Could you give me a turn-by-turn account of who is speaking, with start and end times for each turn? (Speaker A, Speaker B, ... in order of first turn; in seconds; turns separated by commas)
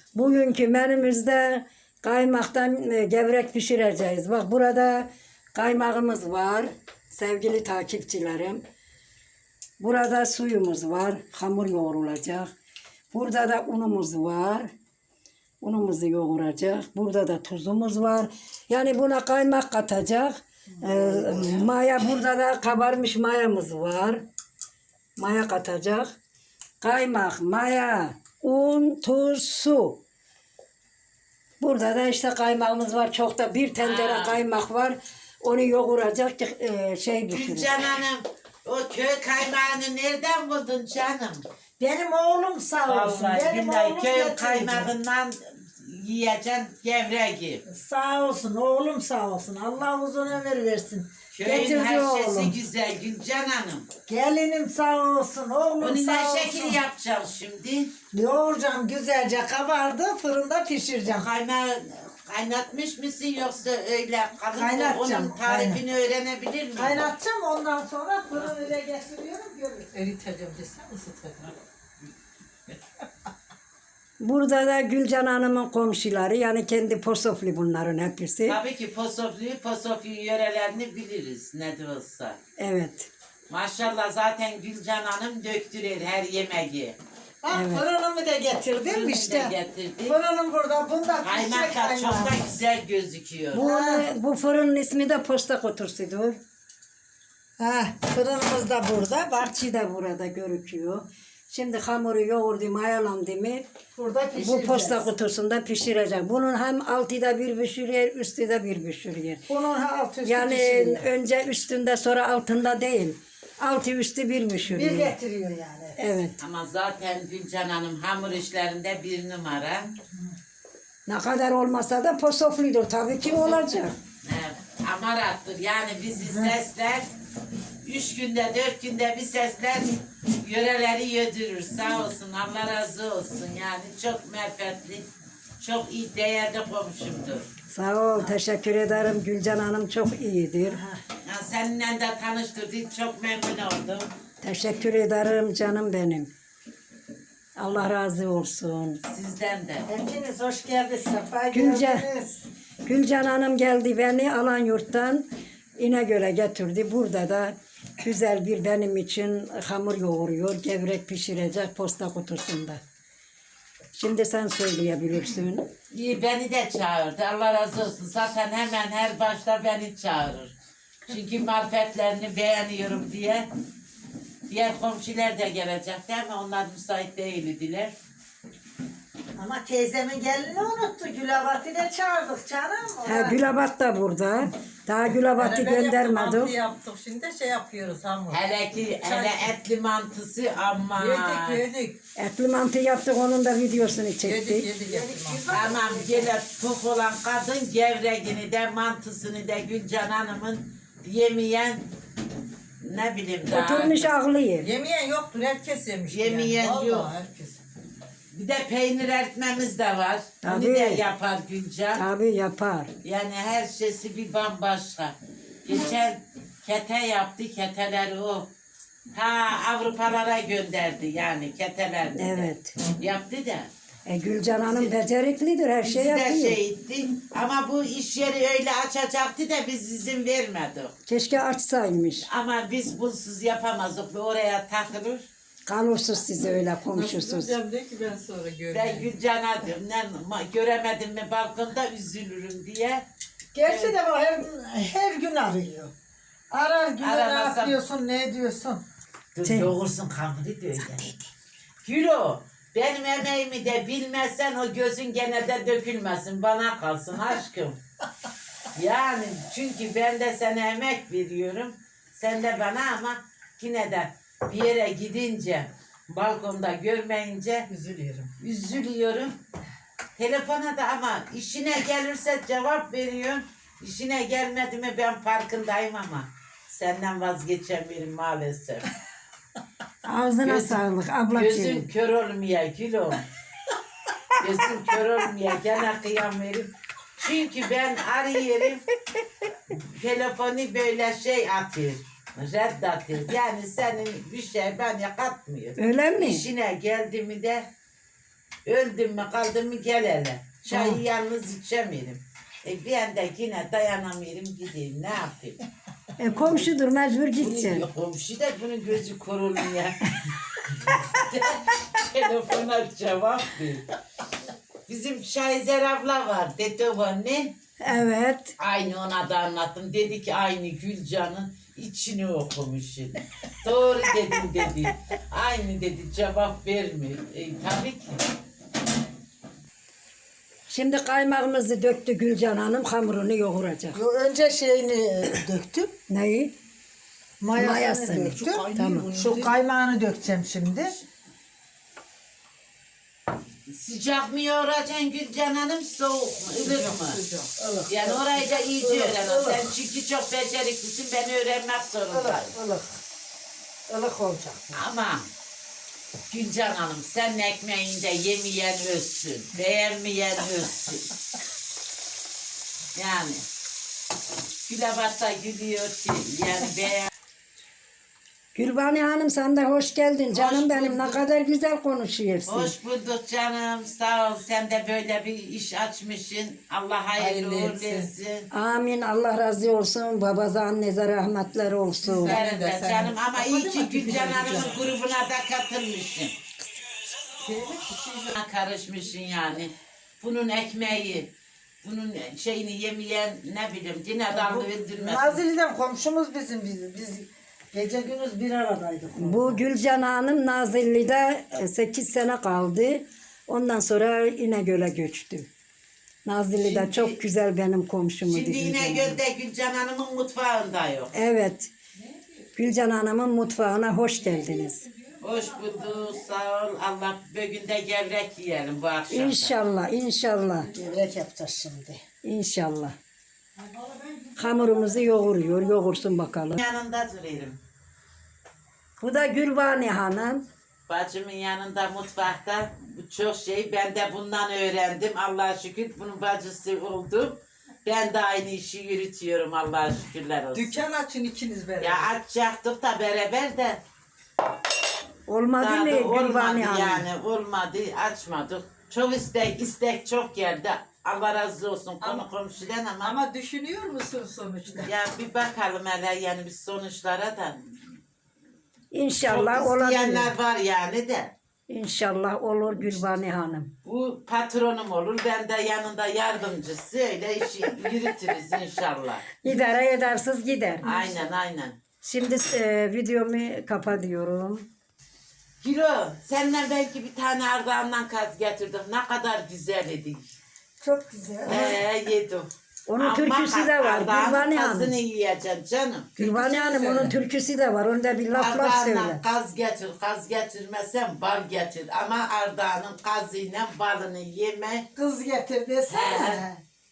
Speaker A: 0.1-8.6, Speaker A: 9.8-12.5, Speaker A: 13.1-14.7, Speaker A: 15.6-24.2, Speaker B: 20.8-21.7, Speaker A: 25.2-26.1, Speaker A: 26.8-30.0, Speaker A: 31.6-37.8, Speaker C: 33.8-34.4, Speaker C: 37.3-41.5, Speaker B: 41.8-44.9, Speaker C: 42.9-47.6, Speaker B: 47.7-52.5, Speaker C: 51.3-53.9, Speaker A: 51.5-52.3, Speaker B: 54.1-56.8, Speaker C: 55.8-57.9, Speaker B: 58.1-61.3, Speaker C: 61.1-67.1, Speaker B: 64.5-65.8, Speaker B: 66.8-69.9, Speaker D: 69.9-71.5, Speaker A: 74.2-78.6, Speaker C: 78.5-82.4, Speaker A: 82.6-83.1, Speaker C: 83.5-87.0, Speaker B: 87.4-92.4, Speaker A: 87.5-87.8, Speaker C: 88.8-90.2, Speaker C: 91.2-93.7, Speaker A: 93.5-96.4, Speaker B: 93.6-94.1, Speaker B: 97.6-99.5, Speaker A: 99.4-103.7, Speaker B: 104.0-105.1, Speaker A: 104.4-109.5, Speaker B: 109.5-111.1, Speaker A: 110.2-115.1, Speaker B: 114.7-116.2, Speaker A: 116.0-116.4, Speaker C: 116.4-119.9, Speaker A: 121.1-124.0, Speaker C: 123.8-127.1, Speaker B: 126.2-126.5, Speaker C: 127.8-135.1, Speaker C: 135.6-137.5, Speaker A: 137.7-140.8, Speaker B: 140.7-141.0, Speaker C: 141.2-144.1, Speaker A: 144.4-146.3, Speaker A: 147.6-149.0, Speaker C: 149.1-149.9, Speaker B: 149.9-152.4, Speaker A: 151.5-152.1, Speaker A: 152.8-162.8, Speaker A: 163.9-165.7, Speaker C: 165.9-170.5, Speaker C: 171.1-173.5, Speaker C: 174.5-177.9, Speaker B: 179.4-183.4, Speaker A: 183.1-186.5, Speaker D: 185.4-188.4, Speaker C: 188.3-191.6, Speaker D: 189.0-189.5, Speaker D: 191.0-192.0, Speaker A: 192.2-194.7, Speaker D: 194.2-195.4, Speaker B: 194.9-196.3, Speaker C: 195.5-201.8, Speaker C: 202.8-204.1, Speaker A: 203.5-204.7, Speaker D: 204.6-207.6, Speaker C: 206.1-207.1, Speaker C: 208.3-212.0, Speaker A: 210.4-211.0, Speaker A: 211.9-212.9, Speaker C: 213.0-218.5, Speaker C: 219.1-222.5, Speaker A: 222.2-222.8, Speaker C: 223.0-223.7, Speaker A: 224.1-226.6, Speaker C: 224.6-225.0, Speaker C: 225.8-230.9, Speaker A: 231.1-232.3, Speaker C: 232.2-235.3, Speaker A: 235.7-237.6, Speaker D: 236.9-239.1, Speaker C: 238.7-243.1, Speaker B: 243.5-245.9, Speaker C: 243.7-243.9, Speaker B: 246.5-248.8, Speaker C: 247.0-247.8, Speaker C: 249.3-251.1, Speaker A: 249.4-249.7, Speaker C: 251.8-257.8, Speaker C: 258.8-267.7, Speaker D: 267.7-268.2, Speaker B: 267.8-268.3, Speaker C: 268.4-269.4, Speaker C: 270.2-278.9, Speaker A: 280.0-281.9, Speaker C: 280.4-283.2, Speaker C: 284.4-288.8, Speaker C: 289.7-297.7, Speaker A: 295.8-296.4, Speaker C: 298.7-305.6, Speaker A: 306.2-307.9, Speaker C: 307.4-310.1, Speaker C: 310.6-313.9, Speaker C: 314.9-317.6, Speaker A: 317.8-318.5, Speaker C: 318.6-328.2, Speaker A: 330.7-334.0, Speaker B: 333.9-335.9, Speaker A: 336.1-336.5, Speaker B: 337.4-340.9, Speaker A: 337.6-339.1, Speaker D: 338.4-339.6, Speaker C: 343.7-347.2, Speaker D: 346.6-347.5, Speaker B: 347.6-349.7, Speaker C: 347.9-352.6, Speaker B: 352.1-353.0, Speaker B: 353.9-354.8, Speaker C: 354.8-355.3, Speaker C: 356.3-361.1, Speaker C: 363.0-363.4, Speaker C: 364.7-367.1, Speaker A: 368.6-372.7, Speaker C: 370.3-371.2, Speaker C: 372.5-378.5, Speaker D: 377.2-378.1, Speaker A: 378.5-382.4, Speaker D: 382.0-384.9, Speaker C: 382.2-386.4, Speaker D: 387.3-388.3, Speaker C: 388.3-391.3, Speaker C: 391.8-395.4, Speaker B: 394.3-399.7, Speaker A: 399.2-405.5, Speaker A: 406.2-409.2, Speaker C: 406.5-407.2, Speaker C: 408.2-411.1, Speaker A: 411.1-411.7, Speaker D: 412.0-412.6, Speaker A: 412.6-414.8, Speaker D: 414.2-416.3, Speaker C: 415.2-419.5, Speaker A: 419.1-420.7, Speaker B: 420.7-422.0, Speaker A: 422.2-423.0, Speaker D: 423.6-425.5, Speaker A: 424.4-426.6, Speaker C: 426.6-427.6, Speaker A: 429.0-430.5, Speaker C: 430.9-440.8, Speaker D: 440.5-442.1, Speaker C: 441.8-443.8, Speaker A: 445.3-447.1, Speaker C: 445.6-453.2, Speaker D: 452.0-452.3, Speaker D: 453.0-454.9, Speaker C: 454.8-457.6, Speaker A: 458.9-460.3, Speaker C: 459.2-461.3, Speaker A: 461.7-463.7, Speaker C: 463.8-469.3, Speaker A: 469.4-470.9, Speaker C: 470.8-471.8, Speaker A: 472.0-474.7, Speaker C: 475.6-480.3, Speaker B: 480.8-481.8, Speaker C: 481.5-486.2, Speaker A: 482.9-485.0, Speaker D: 486.2-487.1, Speaker A: 486.2-489.2, Speaker C: 488.3-494.9, Speaker B: 495.0-496.6, Speaker C: 495.9-496.4